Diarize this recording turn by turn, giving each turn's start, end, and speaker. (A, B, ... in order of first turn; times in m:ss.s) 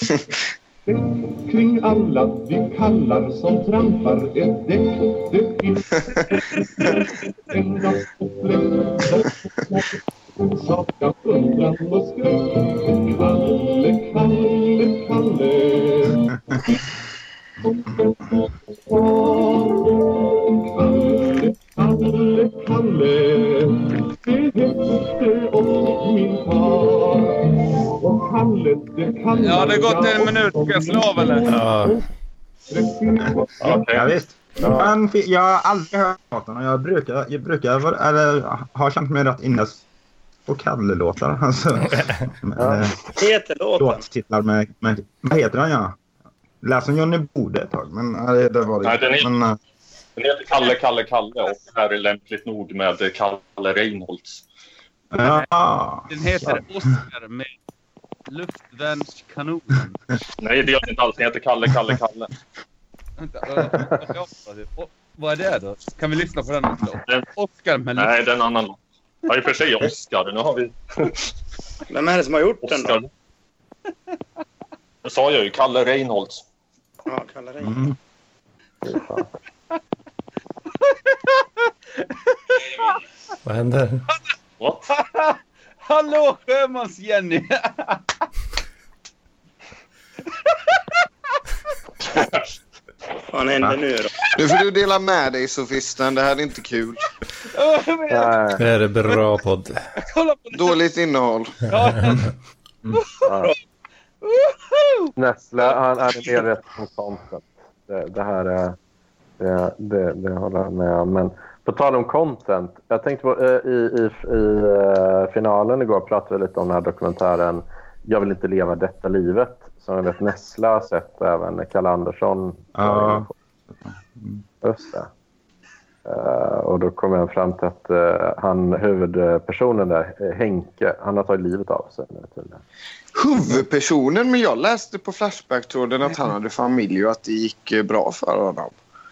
0:00.8-0:16.8 A
0:17.6-0:32.0 A
0:29.3-0:31.5 B
0:31.5-0:32.0 C
0:32.7-0:33.9 A
0:33.6-0:34.0 D
0:33.9-0:39.8 E
0:34.6-0:34.9 F
0:40.4-0:43.0 E
0:42.6-0:42.8 F
0:43.2-0:44.0 G
0:43.8-0:46.0 E
0:46.6-0:49.6 E
0:48.8-0:49.3 D
0:50.2-0:54.4 D
0:55.1-0:56.6 E
0:56.1-0:57.5 B
0:58.3-1:00.0 B
1:00.4-1:02.3 D
1:03.2-1:08.2 B
1:08.0-1:11.2 D
1:11.9-1:13.0 G
1:12.6-1:13.1 D
1:15.0-1:16.4 D
1:17.0-1:17.9 G
1:17.6-1:17.9 E
1:18.8-1:19.3 F
1:22.0-1:23.0 B
1:23.4-1:24.0 C
1:24.6-1:24.9 D
1:24.9-1:28.0 B
1:33.3-1:34.1 G
1:34.3-1:37.0 H
1:37.5-1:38.5 B
1:38.1-1:38.6 F
1:38.6-1:39.8 C
1:40.0-1:40.8 B
1:40.5-1:41.6 H
1:41.7-1:42.2 B
1:43.2-1:43.5 F
1:44.2-1:45.1 B
1:45.2-1:48.8 F
1:49.4-2:03.3 F
2:02.7-2:03.3 E
2:03.8-2:04.4 E
2:04.6-2:05.1 F
2:06.0-2:12.6 F
2:13.1-2:18.7 H